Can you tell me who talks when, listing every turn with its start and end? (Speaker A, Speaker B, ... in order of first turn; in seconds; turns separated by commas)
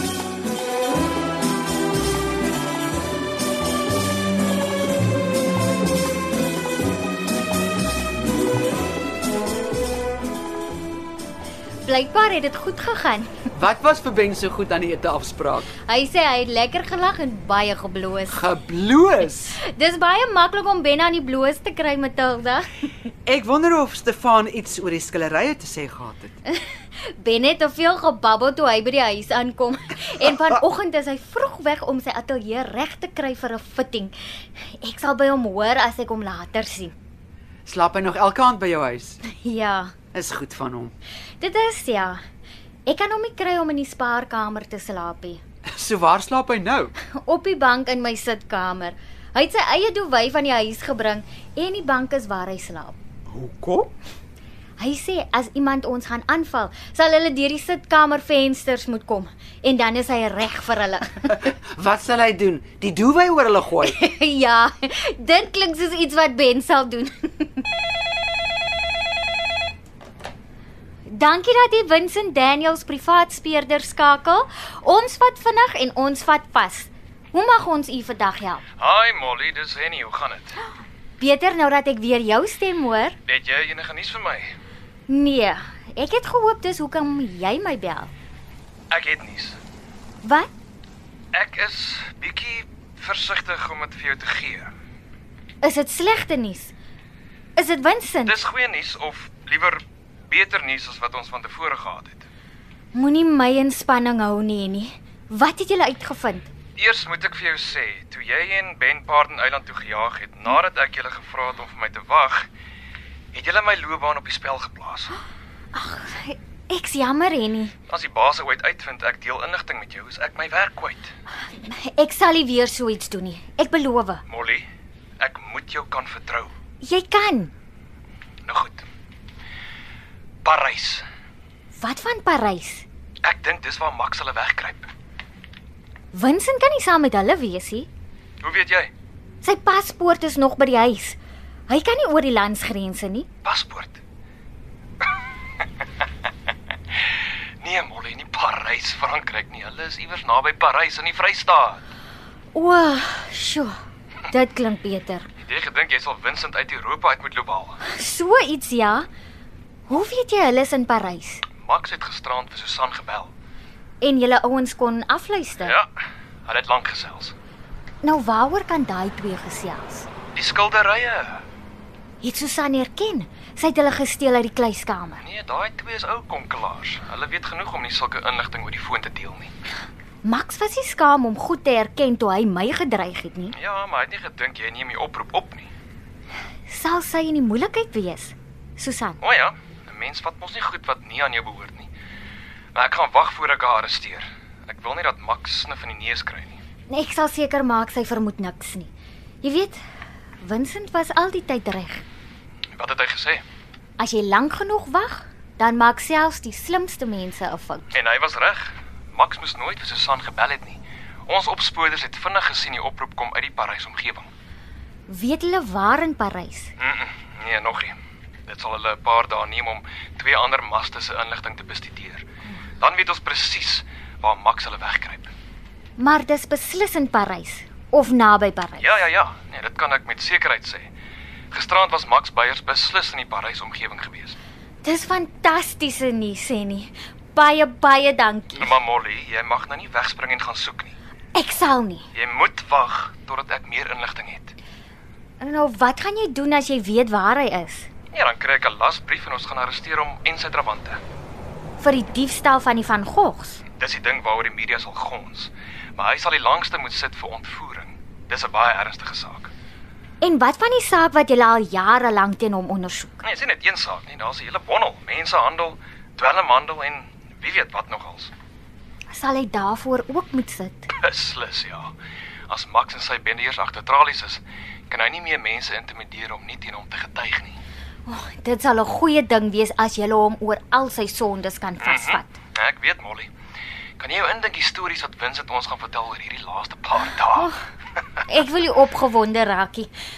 Speaker A: 11.8-13.4, Speaker B: 13.5-15.7, Speaker A: 15.8-18.5, Speaker B: 18.3-19.6, Speaker A: 19.5-22.7, Speaker B: 23.2-26.3, Speaker A: 26.5-36.9, Speaker B: 37.6-39.2, Speaker A: 39.2-39.9, Speaker B: 40.1-40.9, Speaker A: 41.4-42.2, Speaker A: 42.9-45.4, Speaker B: 45.6-46.9, Speaker A: 47.0-53.0, Speaker B: 53.3-53.9, Speaker A: 54.8-61.5, Speaker B: 61.3-64.0, Speaker A: 63.8-67.6, Speaker A: 71.1-78.6, Speaker C: 78.8-80.6, Speaker A: 81.2-83.2, Speaker C: 83.2-84.5, Speaker A: 85.1-88.1, Speaker C: 88.9-89.6, Speaker A: 90.2-90.5, Speaker C: 91.3-94.7, Speaker A: 95.6-96.7, Speaker A: 97.5-98.3, Speaker C: 98.2-102.3, Speaker A: 102.9-106.5, Speaker C: 106.8-112.5, Speaker C: 113.3-115.2, Speaker A: 115.7-117.7, Speaker C: 117.9-121.1, Speaker A: 121.4-124.2, Speaker C: 124.3-124.7, Speaker C: 125.2-126.5, Speaker A: 126.8-127.5, Speaker C: 128.4-128.8, Speaker C: 130.4-131.0, Speaker A: 131.7-132.8, Speaker C: 133.2-134.9, Speaker A: 136.1-137.9, Speaker C: 138.4-138.9, Speaker A: 139.4-143.3, Speaker C: 143.4-144.0, Speaker C: 147.6-151.8, Speaker A: 152.5-153.7, Speaker A: 154.3-155.3, Speaker C: 155.4-157.8, Speaker A: 157.8-159.1, Speaker A: 159.9-161.4, Speaker C: 161.6-163.3, Speaker A: 164.0-165.7, Speaker C: 165.6-165.9, Speaker C: 166.4-167.3, Speaker A: 168.0-170.1, Speaker C: 170.3-171.4, Speaker A: 172.2-175.2, Speaker C: 175.2-179.5, Speaker A: 180.2-183.5, Speaker C: 183.5-185.7, Speaker A: 186.7-189.2, Speaker C: 189.2-191.9, Speaker C: 192.7-196.6, Speaker A: 196.9-198.9, Speaker A: 199.4-199.8, Speaker A: 200.4-202.0, Speaker C: 202.7-203.4, Speaker A: 204.0-207.9, Speaker C: 207.9-214.3, Speaker A: 215.1-216.7, Speaker C: 216.8-217.9, Speaker C: 218.5-222.2, Speaker C: 222.8-225.3, Speaker A: 226.0-228.9, Speaker C: 228.8-230.9, Speaker C: 231.5-234.4, Speaker A: 234.8-238.7, Speaker C: 238.6-240.9, Speaker A: 241.3-242.0, Speaker C: 242.1-244.5, Speaker A: 245.4-247.9, Speaker C: 248.1-251.0, Speaker A: 251.8-253.6, Speaker C: 253.8-259.5, Speaker A: 260.2-263.2, Speaker C: 263.2-268.3, Speaker A: 269.1-270.9, Speaker C: 270.9-271.9, Speaker C: 272.5-277.6, Speaker A: 278.1-282.4, Speaker C: 281.8-283.3, Speaker C: 284.0-287.5, Speaker A: 288.2-289.9